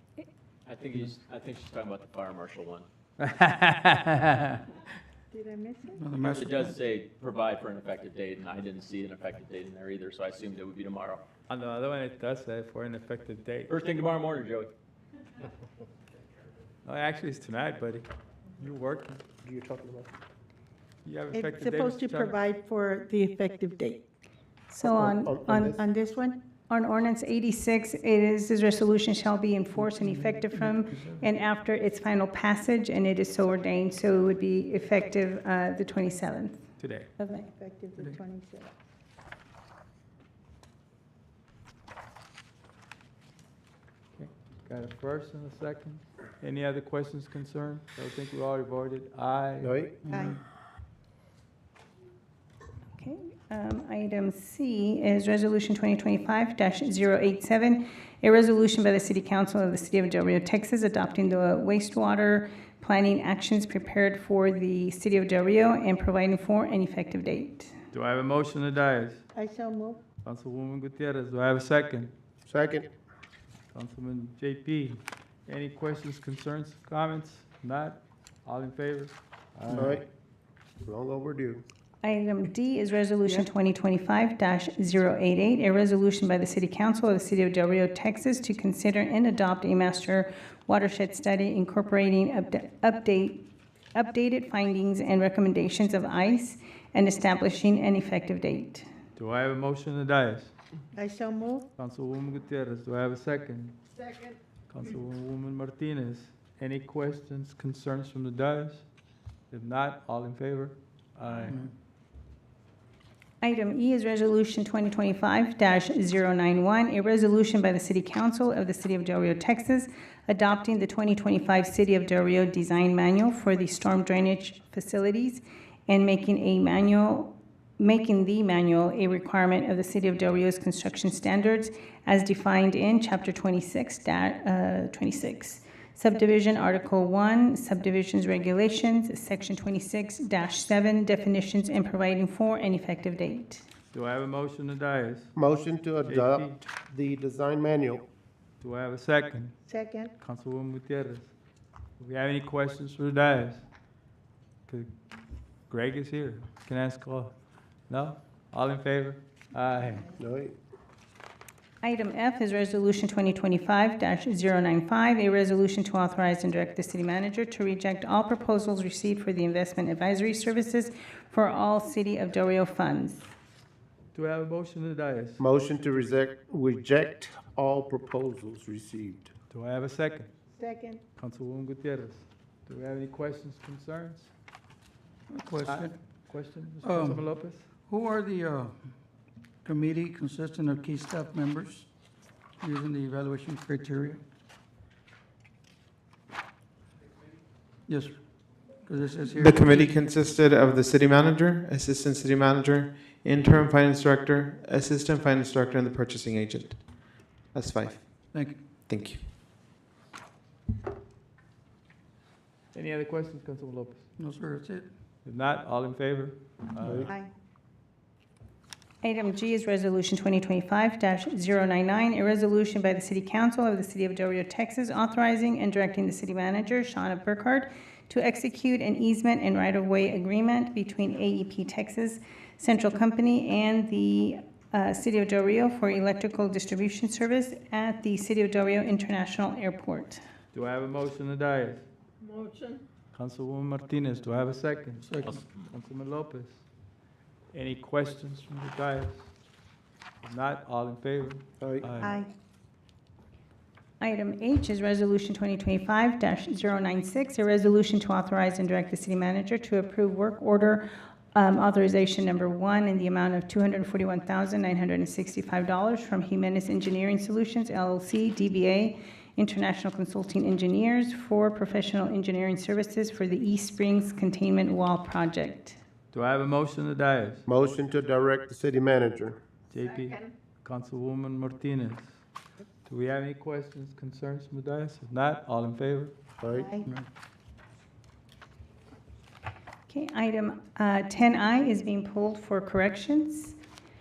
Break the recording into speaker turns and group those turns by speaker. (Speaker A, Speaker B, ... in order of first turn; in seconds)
Speaker A: 0.7-2.9, 6.2-11.2, 13.7-14.7, 245.2-245.7
Speaker B: 3.2-4.6, 11.5-13.7, 16.8-18.1, 18.6-19.2, 21.0-22.4, 36.8-37.1, 44.1-49.8, 67.9-69.2, 70.2-72.1, 73.7-80.0, 99.2-100.5, 101.8-103.8, 104.7-108.8, 109.5-111.6, 143.9-145.3, 146.0-146.5, 148.6-149.6, 150.2-151.3, 152.0-153.6, 155.7-157.3, 157.9-160.1, 174.1-175.4, 179.5-180.3, 181.2-184.3, 185.7-187.7, 212.7-214.1, 215.2-217.1, 240.5-241.9, 243.1-246.6, 247.5-249.3, 250.2-252.2, 276.1-277.4, 279.7-282.2, 282.9-286.1
Speaker C: 5.3-6.0, 21.3-24.0, 25.8-26.4, 37.5-38.7, 69.3-70.0, 100.9-101.7, 149.7-150.1, 180.6-181.0, 252.0-252.3, 286.5-286.9
Speaker D: 5.9-6.8, 29.8-31.2, 50.0-50.4, 111.4-111.7, 185.3-186.1, 186.7-191.9, 192.6-194.2, 197.9-200.0, 208.3-208.6, 214.2-214.9, 245.0-245.4
Speaker E: 19.4-20.1, 24.8-25.8, 49.6-50.0, 72.5-72.9, 79.7-80.0, 80.8-81.6, 145.3-148.0, 160.1-160.6, 175.4-179.3, 216.8-217.1, 251.6-251.9, 277.4-279.4, 286.4-286.7
Speaker F: 24.7-25.8, 26.7-36.6, 37.2-37.5, 53.0-67.8, 82.0-93.4, 93.9-98.9, 113.4-143.6, 161.8-173.2, 219.0-240.2, 254.0-275.8, 289.9-293.6
Speaker G: 199.3-208.2, 208.9-209.2